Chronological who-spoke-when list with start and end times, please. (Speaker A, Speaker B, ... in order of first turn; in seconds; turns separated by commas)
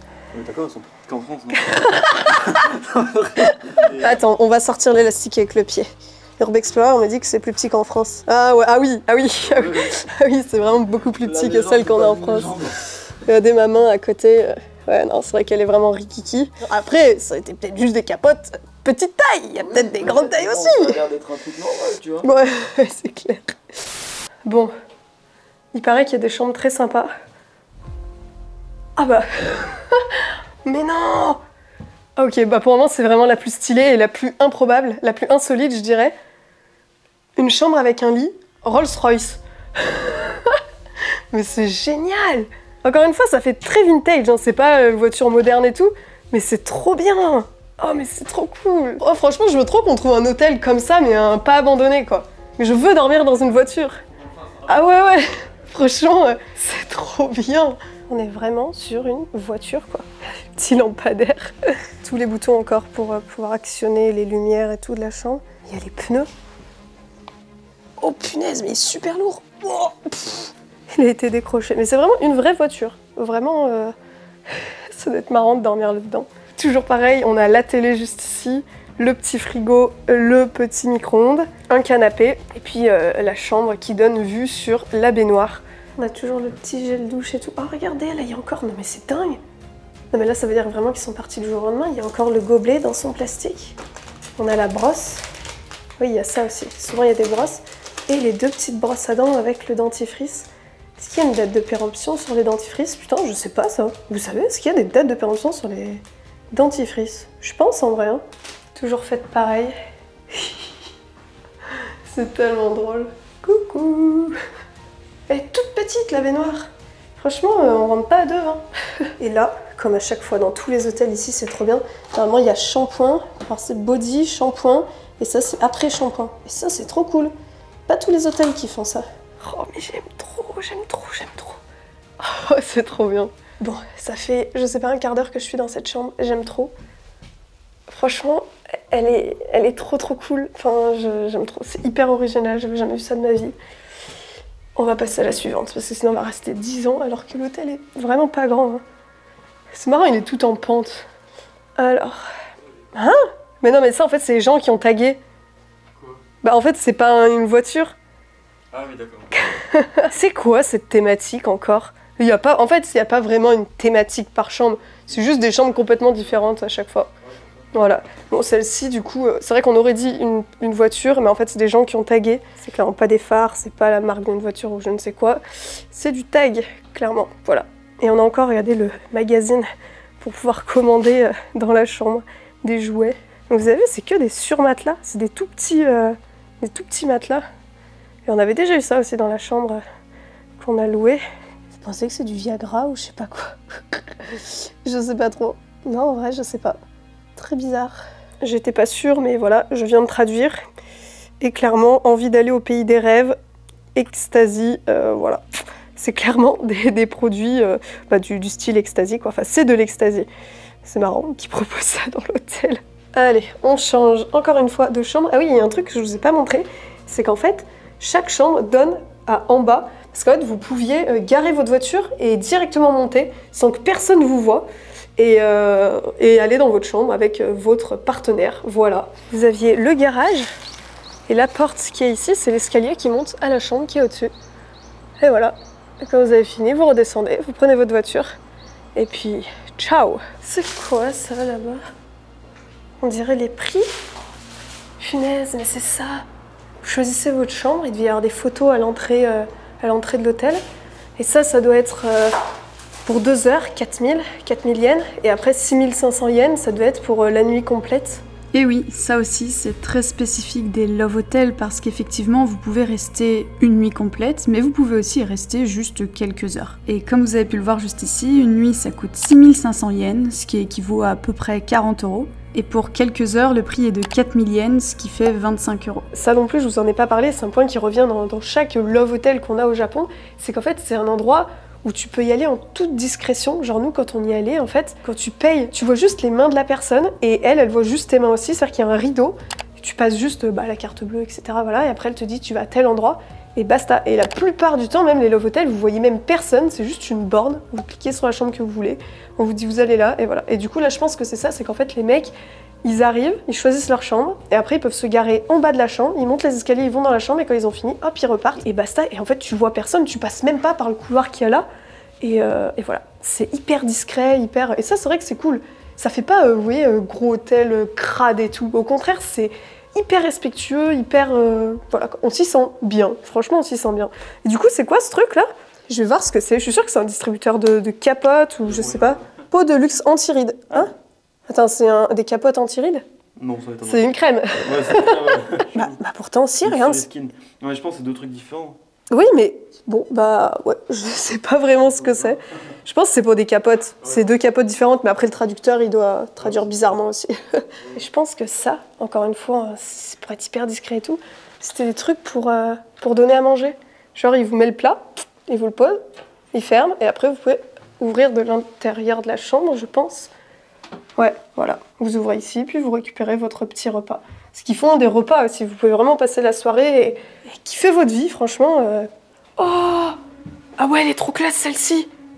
Speaker A: 0.3-4.1, Speaker B: 1.6-2.6, Speaker B: 3.4-5.8, Speaker B: 6.4-12.6, Speaker A: 9.5-9.9, Speaker A: 11.2-12.8, Speaker B: 13.2-21.0, Speaker A: 19.7-22.3, Speaker B: 22.2-23.4, Speaker B: 24.4-24.7, Speaker B: 25.7-27.1, Speaker B: 29.0-31.4, Speaker B: 32.1-36.1, Speaker B: 37.4-40.6, Speaker B: 41.3-54.0, Speaker B: 54.6-66.3, Speaker B: 68.0-73.9, Speaker B: 74.5-89.4, Speaker B: 90.1-93.8, Speaker B: 94.4-95.2, Speaker B: 96.0-108.2, Speaker B: 108.7-109.7, Speaker B: 110.3-110.7, Speaker B: 112.1-114.3, Speaker B: 115.3-118.6, Speaker B: 119.2-127.3, Speaker B: 127.9-131.6, Speaker B: 132.2-136.7, Speaker B: 137.9-143.5, Speaker B: 144.8-148.8, Speaker B: 149.7-151.0, Speaker B: 151.8-152.2, Speaker B: 152.9-155.2, Speaker B: 156.4-157.9, Speaker A: 158.7-159.3, Speaker B: 159.3-167.1, Speaker B: 167.7-179.7, Speaker B: 180.2-187.4, Speaker B: 188.2-189.8, Speaker B: 190.6-191.2, Speaker B: 191.8-196.8, Speaker B: 197.3-200.6, Speaker B: 201.4-203.3, Speaker B: 203.9-205.4, Speaker B: 205.9-210.3, Speaker B: 210.8-230.5, Speaker B: 231.3-234.3, Speaker B: 235.2-238.3, Speaker B: 238.9-241.8, Speaker B: 243.0-243.9, Speaker B: 245.0-246.2, Speaker B: 246.8-250.6, Speaker B: 251.2-252.4, Speaker B: 253.1-258.2, Speaker C: 258.5-276.0, Speaker B: 276.1-311.6, Speaker B: 312.2-330.9, Speaker A: 328.6-329.2, Speaker B: 331.5-333.0, Speaker A: 333.4-336.0, Speaker B: 333.8-337.1, Speaker A: 336.6-338.8, Speaker B: 339.1-356.0, Speaker B: 356.5-360.3, Speaker B: 361.2-370.2, Speaker B: 370.8-372.1